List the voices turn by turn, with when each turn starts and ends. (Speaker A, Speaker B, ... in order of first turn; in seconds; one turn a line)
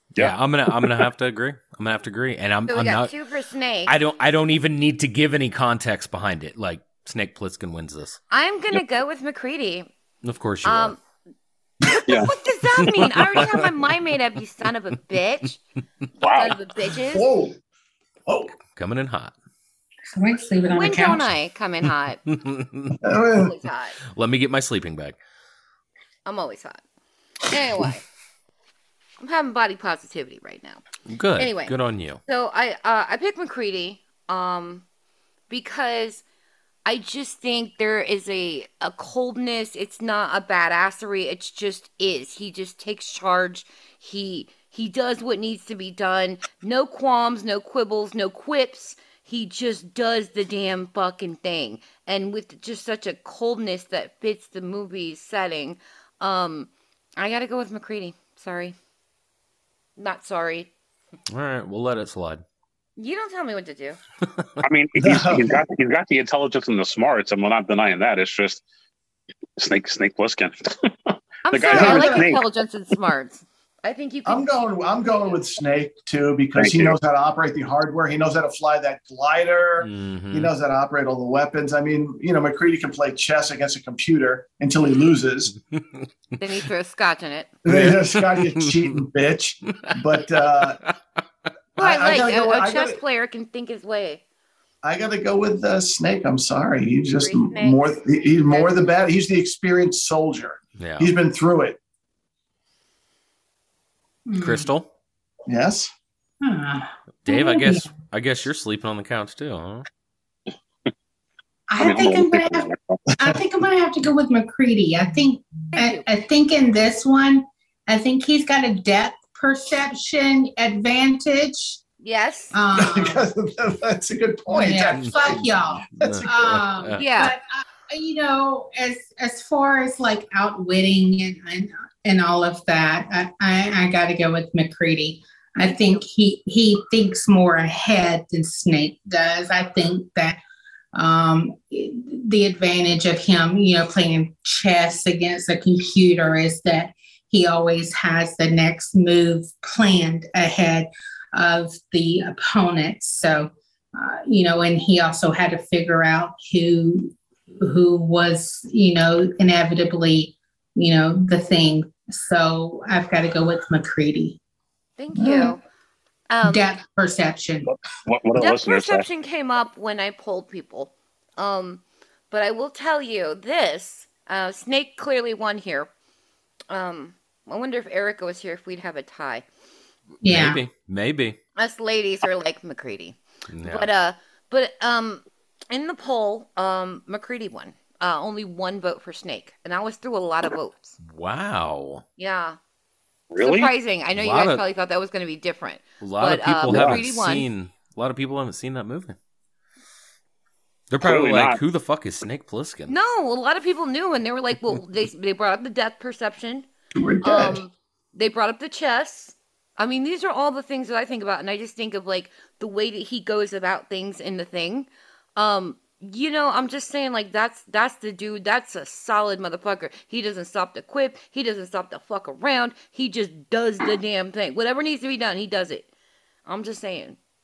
Speaker A: 0.2-3.1
Speaker B: 0.2-0.9
Speaker C: 2.7-3.9
Speaker A: 3.9-8.2
Speaker C: 8.3-9.9
Speaker A: 10.2-10.9
Speaker C: 10.6-11.0
Speaker B: 12.1-12.3
Speaker C: 12.1-15.6
Speaker A: 12.8-13.7
Speaker B: 16.2-16.6
Speaker C: 16.2-17.3
Speaker D: 17.1-17.6
Speaker D: 18.3-18.5
Speaker A: 18.7-19.3
Speaker E: 20.1-21.3
Speaker C: 20.7-22.2
Speaker A: 22.3-23.0
Speaker D: 23.0-23.5
Speaker C: 23.4-24.0
Speaker A: 24.1-25.2
Speaker C: 26.3-26.8
Speaker C: 27.5-28.0
Speaker C: 29.2-30.8
Speaker A: 31.1-32.2
Speaker C: 31.4-34.8
Speaker C: 35.5-36.2
Speaker C: 36.9-58.8
Speaker C: 60.0-60.7
Speaker A: 61.3-62.4
Speaker C: 63.0-64.0
Speaker B: 64.6-68.6
Speaker D: 65.0-65.6
Speaker B: 69.6-72.4
Speaker C: 71.5-74.5
Speaker D: 71.7-72.4
Speaker D: 74.2-85.5
Speaker B: 76.6-77.0
Speaker A: 79.8-80.5
Speaker A: 85.8-86.0
Speaker C: 86.4-87.5
Speaker D: 87.7-90.8
Speaker A: 87.7-88.9
Speaker A: 89.7-90.0
Speaker A: 90.6-90.9
Speaker D: 91.8-93.0
Speaker C: 91.8-94.2
Speaker D: 94.8-101.8
Speaker C: 97.2-97.8
Speaker C: 98.4-98.9
Speaker A: 100.8-101.1
Speaker E: 104.3-104.7
Speaker A: 104.4-104.9
Speaker D: 105.5-105.9
Speaker E: 106.4-108.0
Speaker A: 107.3-109.9
Speaker E: 111.7-121.8
Speaker B: 111.8-113.0
Speaker C: 115.7-116.0
Speaker C: 122.0-122.5
Speaker E: 122.5-123.2
Speaker D: 122.7-126.7
Speaker E: 124.5-140.4
Speaker A: 125.0-127.1
Speaker C: 127.0-127.3
Speaker E: 140.9-164.4
Speaker C: 165.0-165.6
Speaker E: 165.2-165.5
Speaker C: 166.3-166.7
Speaker E: 166.4-167.7
Speaker B: 167.7-169.1
Speaker C: 168.4-175.9
Speaker C: 176.7-179.4
Speaker E: 180.2-180.6
Speaker A: 180.2-181.4
Speaker C: 181.6-190.9
Speaker A: 183.5-183.9
Speaker A: 191.0-192.0
Speaker C: 192.2-192.6
Speaker B: 193.3-193.7
Speaker C: 193.4-197.5
Speaker A: 194.1-194.6
Speaker A: 196.0-199.2
Speaker D: 196.7-197.0
Speaker A: 200.9-203.0
Speaker B: 201.0-201.6
Speaker C: 202.9-206.7
Speaker D: 206.9-207.6
Speaker C: 207.2-225.9
Speaker C: 226.5-227.2